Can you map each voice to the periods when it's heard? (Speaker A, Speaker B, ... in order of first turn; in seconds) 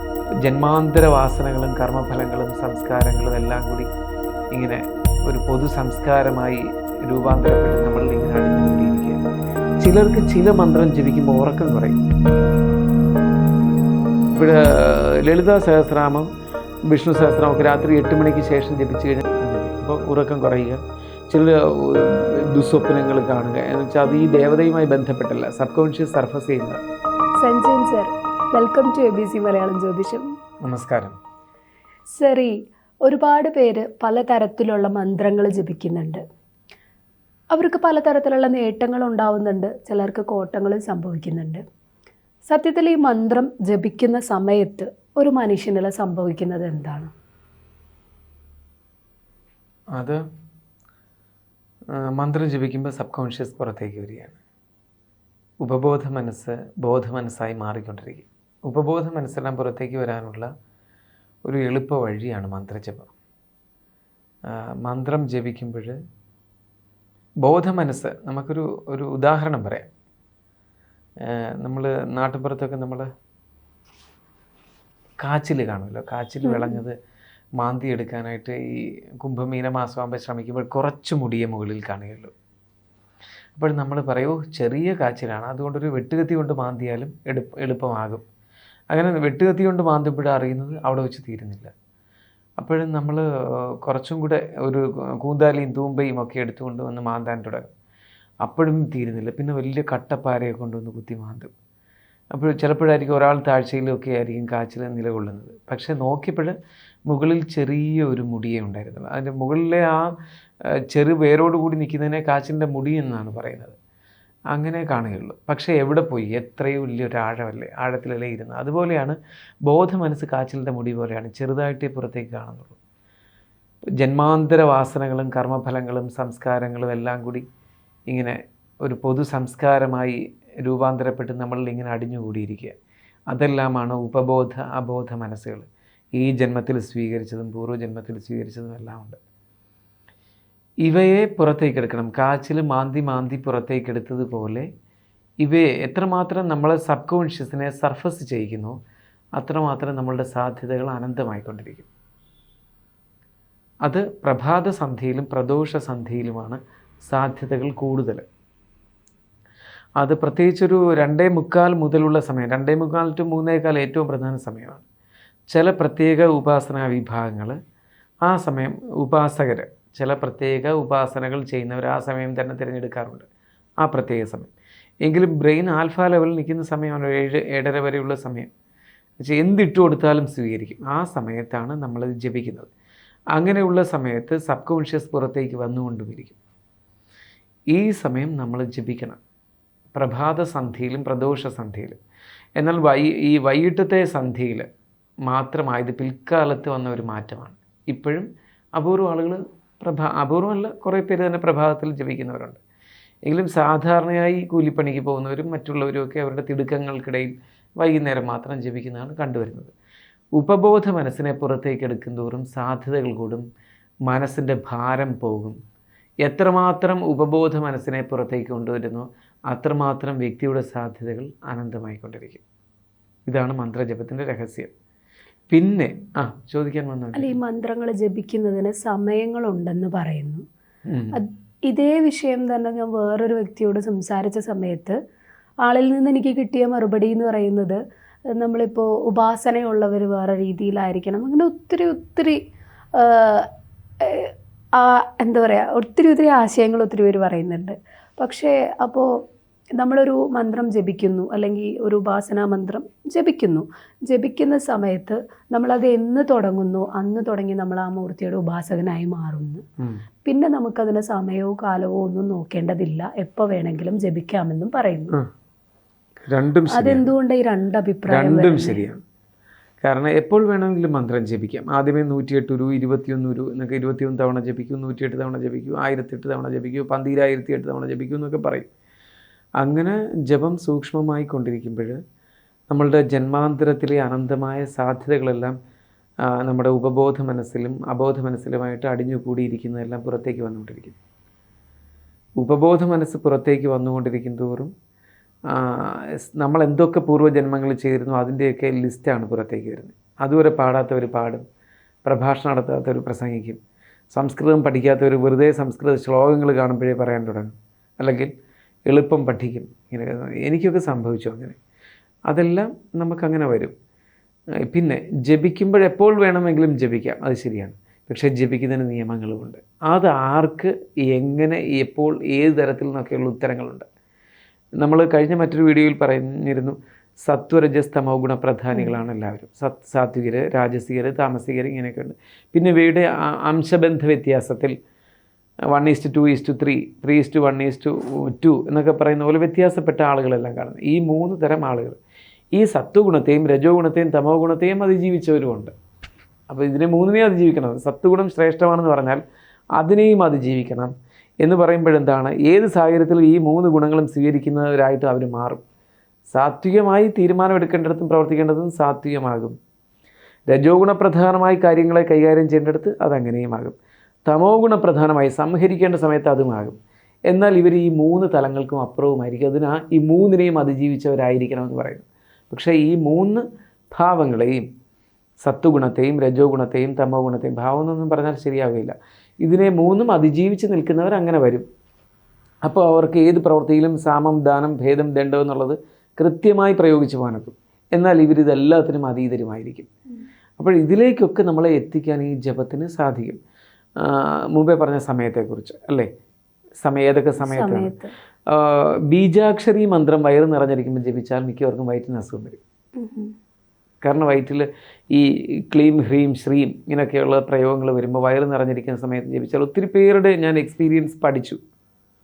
Speaker A: 0.4-3.9, 4.5-9.2, 9.8-12.0, 14.3-16.3, 16.9-20.8, 21.3-26.8, 30.6-31.1, 49.9-50.2, 52.0-54.4, 55.6-60.5, 61.4-63.1, 64.5-66.0, 67.4-69.9, 71.2-73.1, 75.2-76.9, 77.6-82.3, 83.5-88.2, 88.9-91.7, 92.6-93.2, 93.8-97.7, 98.4-101.5, 102.3-106.5, 107.1-110.1, 110.9-113.8, 114.5-119.2, 119.7-122.8, 124.0-127.4, 128.1-132.7, 133.3-139.2, 140.8-144.7, 145.4-148.8, 149.4-151.9, 153.8-158.2, 160.0-164.8, 165.5-167.6, 168.2-173.2, 173.8-174.5, 175.0-178.5, 179.2-182.7, 183.3-186.3, 187.7-189.2, 189.9-191.9, 192.6-194.7, 195.2-202.6, 203.2-209.7, 210.3-213.4, 214.1-215.6, 216.2-222.4, 223.3-224.7, 225.5-227.3, 230.9-231.2, 266.3-267.1, 268.1-269.0, 269.8-278.7, 279.6-282.0, 282.7-285.6, 286.3-290.9, 292.4-294.7, 295.5-301.4, 302.0-303.6, 304.1-308.3, 308.9-311.6, 312.3-313.7, 314.7-323.9, 324.8-334.7, 335.7-342.0, 342.5-345.7, 346.5-349.2, 349.8-355.6, 356.3-359.6, 360.5-363.7, 364.2-366.8, 367.3-374.7, 375.4-381.6, 382.6-389.9, 390.6-393.4, 394.0-396.1, 396.8-397.9, 398.5-402.6, 404.0-411.6
Speaker B: 27.4-30.2, 32.2-32.5, 33.0-36.2, 37.5-41.6, 42.5-47.1, 76.4-76.8, 227.1-230.4, 231.1-234.9, 235.6-237.8, 238.3-242.4, 242.9-243.5, 244.0-249.1, 249.8-259.6, 260.2-265.1, 266.7-268.8, 328.7-329.0, 397.4-398.1, 403.0-403.3